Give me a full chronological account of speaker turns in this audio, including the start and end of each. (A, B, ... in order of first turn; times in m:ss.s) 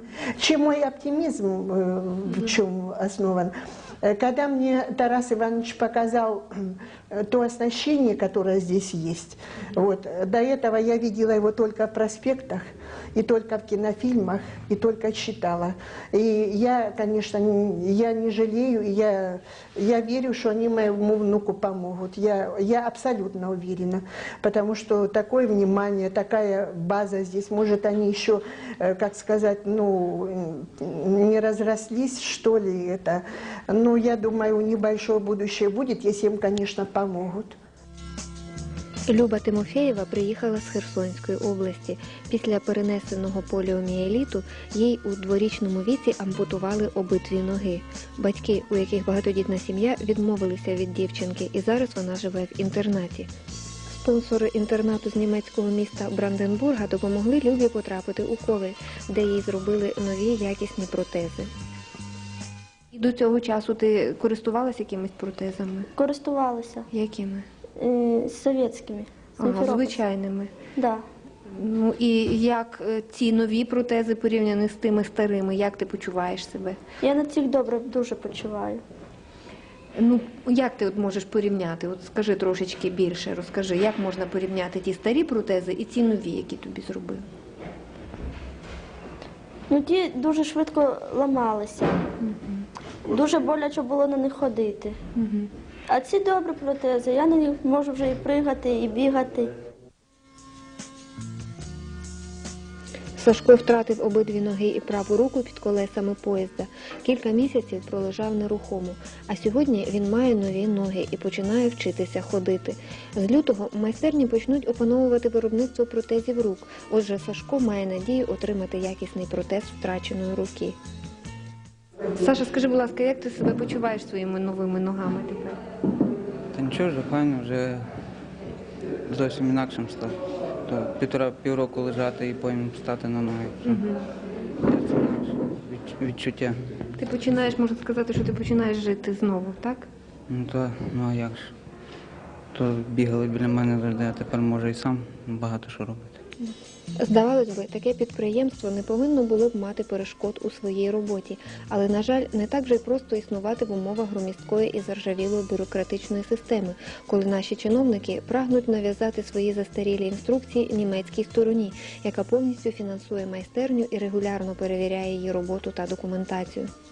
0:00.4-0:37.5 A
0:39.1-0:53.3 B
0:53.9-1:01.5 B
1:02.9-1:05.9 B
1:06.0-1:06.9 C
1:06.9-1:07.4 B
1:07.8-1:09.9 C
1:09.4-1:10.5 B
1:10.8-1:11.0 C
1:11.5-1:16.8 B
1:17.0-1:18.8 C
1:20.0-1:27.2 B
1:29.7-1:32.0 C
1:32.2-1:32.6 B
1:33.0-1:35.0 C
1:35.2-1:35.5 B
1:35.9-1:39.5 C
1:43.2-2:00.8 B
2:02.2-2:05.6 B
2:06.5-2:07.8 D
2:09.1-2:13.8 D
2:13.6-2:14.0 B
2:14.6-2:16.6 D
2:17.0-2:19.9 B
2:20.3-2:21.5 D
2:22.5-2:26.2 D
2:27.0-2:46.7 B